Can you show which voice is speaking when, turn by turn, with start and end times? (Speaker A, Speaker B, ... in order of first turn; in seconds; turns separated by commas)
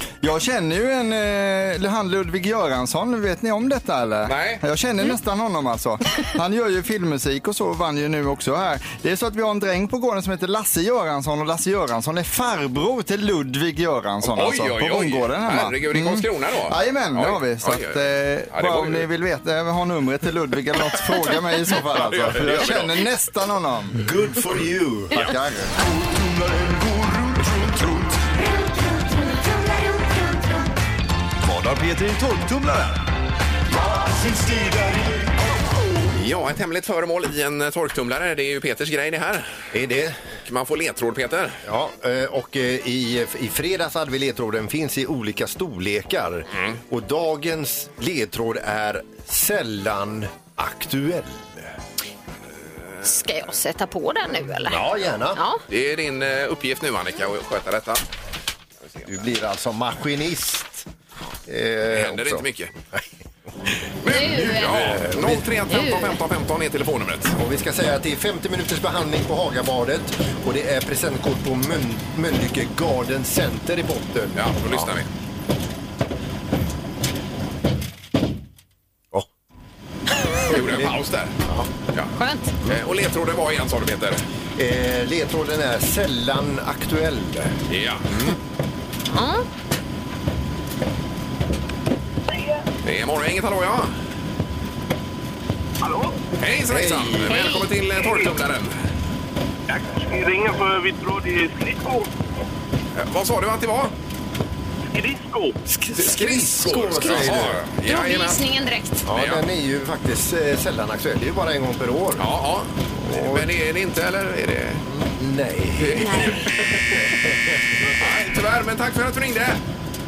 Speaker A: 0.2-24.0, Speaker B: 4.2-4.6, Speaker B: 14.2-19.1, Speaker B: 21.9-23.0, Speaker C: 24.0-25.2, Speaker A: 25.1-25.7, Speaker D: 25.8-28.3, Speaker D: 31.4-33.0, Speaker D: 33.8-35.4, Speaker B: 36.1-39.5, Speaker C: 39.7-40.2, Speaker B: 40.4-41.6, Speaker C: 41.6-51.7, Speaker E: 53.0-55.6, Speaker C: 54.7-55.4, Speaker B: 55.7-58.0, Speaker C: 59.0-60.9, Speaker C: 61.5-63.0, Speaker B: 61.9-62.7, Speaker B: 64.0-67.3, Speaker E: 64.0-64.8, Speaker C: 64.2-65.5, Speaker E: 65.7-66.2, Speaker C: 67.3-74.9, Speaker B: 74.3-75.1, Speaker B: 80.4-81.3, Speaker C: 80.5-80.9, Speaker C: 81.5-81.7, Speaker E: 82.2-82.5, Speaker B: 82.7-84.2, Speaker C: 84.6-88.4, Speaker B: 87.7-88.1, Speaker E: 89.1-89.4, Speaker B: 92.8-93.9, Speaker F: 95.8-96.1, Speaker B: 96.4-98.7, Speaker C: 96.7-97.3, Speaker E: 97.3-97.7, Speaker F: 99.7-102.1, Speaker B: 103.0-103.9, Speaker F: 104.9-105.6, Speaker C: 105.7-107.6, Speaker B: 105.9-108.4, Speaker E: 107.0-109.1, Speaker C: 109.1-112.2, Speaker B: 109.1-109.4, Speaker B: 112.2-114.8, Speaker C: 113.0-113.5, Speaker C: 114.8-118.1, Speaker B: 115.8-116.7, Speaker E: 116.0-116.5, Speaker B: 118.0-119.6